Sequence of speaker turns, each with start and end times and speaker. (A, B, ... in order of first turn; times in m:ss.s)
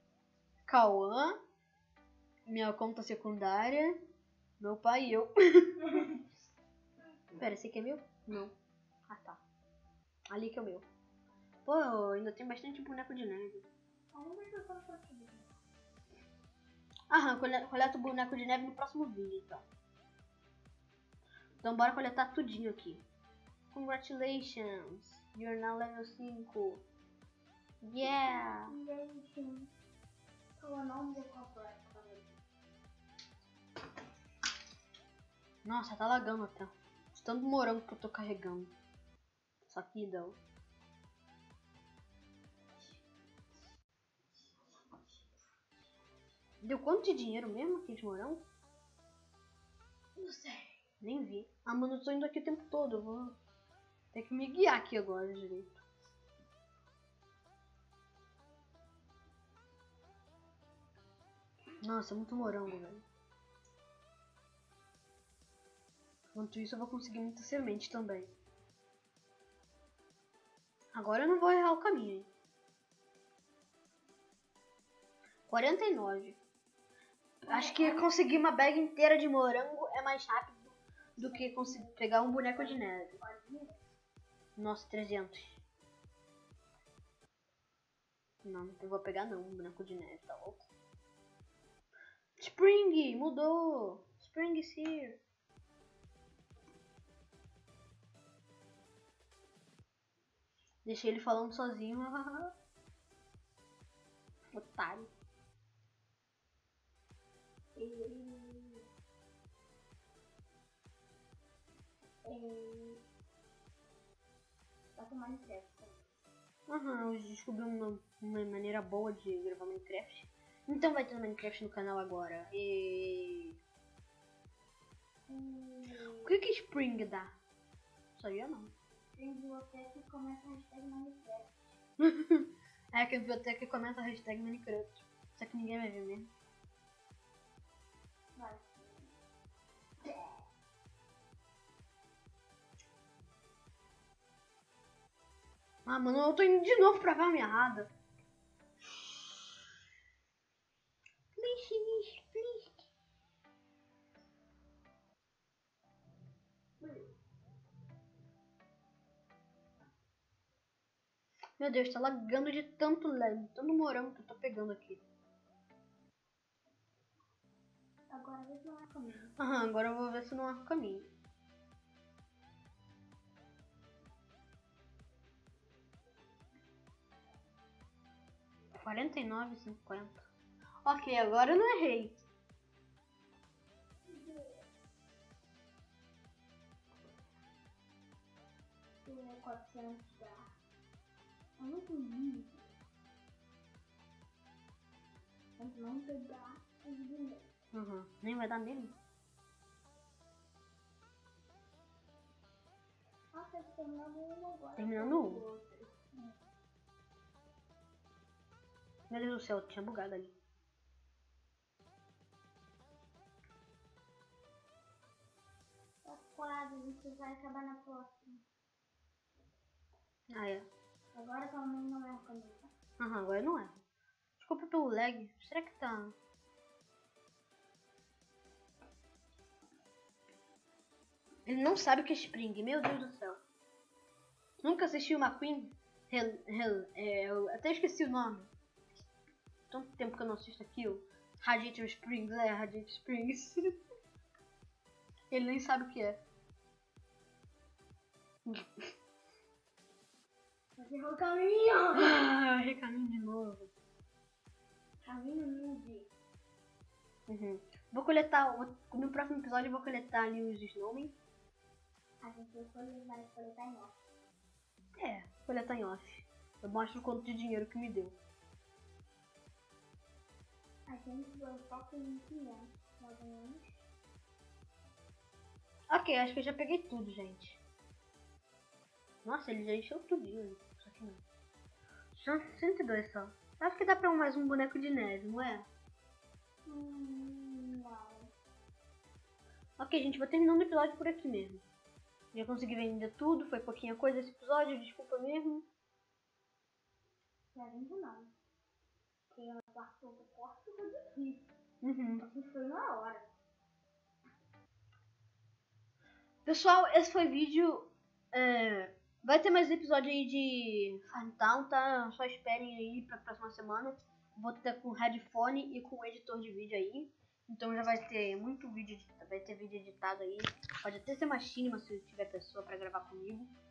0:00.6-0:01.4 A
0:02.5-0:04.0 A
0:04.6-0:06.1 A
0:07.4-0:08.6 A
0:09.1-0:09.4 A
0:10.3-0:10.9 A
0:11.6-0:13.7 A
0:14.1-0:15.5 B
0:17.1-0:19.6 A
0:21.6-0:23.0 A
0:23.7-0:26.8 A
0:27.8-0:28.7 A
0:28.0-0:29.7 B
0:30.6-0:32.4 B
0:35.6-0:38.7 A
0:39.6-0:40.4 A
0:46.6-0:48.4 A
0:50.2-0:50.7 B
0:51.0-0:53.4 A
0:54.1-0:55.8 A
1:01.8-1:03.1 A
1:06.4-1:08.3 A
1:10.9-1:12.3 A
1:15.5-1:16.4 A
1:17.4-1:23.2 A
1:17.4-1:18.1 B
1:21.2-1:23.8 B
1:24.6-1:25.6 A
1:28.4-1:30.7 A
1:32.4-1:35.2 A
1:40.9-1:42.5 A
1:44.5-1:45.1 A
1:47.8-1:48.9 B
1:52.2-1:53.0 B
1:55.0-1:56.0 B
1:56.7-2:03.6 A
2:05.3-2:06.3 B
2:06.2-2:07.3 A
2:08.1-2:08.7 A
2:09.1-2:11.7 B
2:12.0-2:16.3 A
2:18.4-2:19.2 B
2:20.0-2:20.4 B
2:25.8-2:27.9 A
2:31.3-2:32.9 A
2:41.6-2:45.0 A
2:48.1-2:49.4 B
2:49.4-2:51.1 A
2:58.8-3:00.3 A
3:00.8-3:02.2 A
3:04.1-3:04.6 B
3:09.0-3:10.5 B
3:11.6-3:12.8 B
3:15.6-3:17.5 B
3:17.7-3:19.0 A
3:23.3-3:26.4 B
3:24.8-3:25.4 A
3:29.1-3:30.4 A
3:36.0-3:38.4 B
3:40.3-3:40.7 A
3:41.1-3:42.7 B
3:43.0-3:43.8 A
3:44.4-3:46.2 A
3:51.5-3:53.4 A
3:54.6-3:58.5 A
3:59.7-4:03.6 A
4:05.3-4:06.2 A
4:08.5-4:08.9 A
4:10.8-4:12.2 B
4:11.9-4:13.7 A
4:15.0-4:16.1 B
4:17.3-4:21.1 A
4:22.2-4:24.0 B
4:25.0-4:28.2 A
4:30.9-4:33.9 B
4:35.9-4:37.6 A
4:39.2-4:41.2 A
4:42.1-4:45.7 A
4:46.7-4:48.3 B
4:49.8-4:51.6 A
4:52.3-4:55.7 A
4:57.5-4:58.3 B
4:59.3-5:01.5 B
5:01.8-5:02.2 A
5:02.2-5:03.3 B
5:06.5-5:23.5 A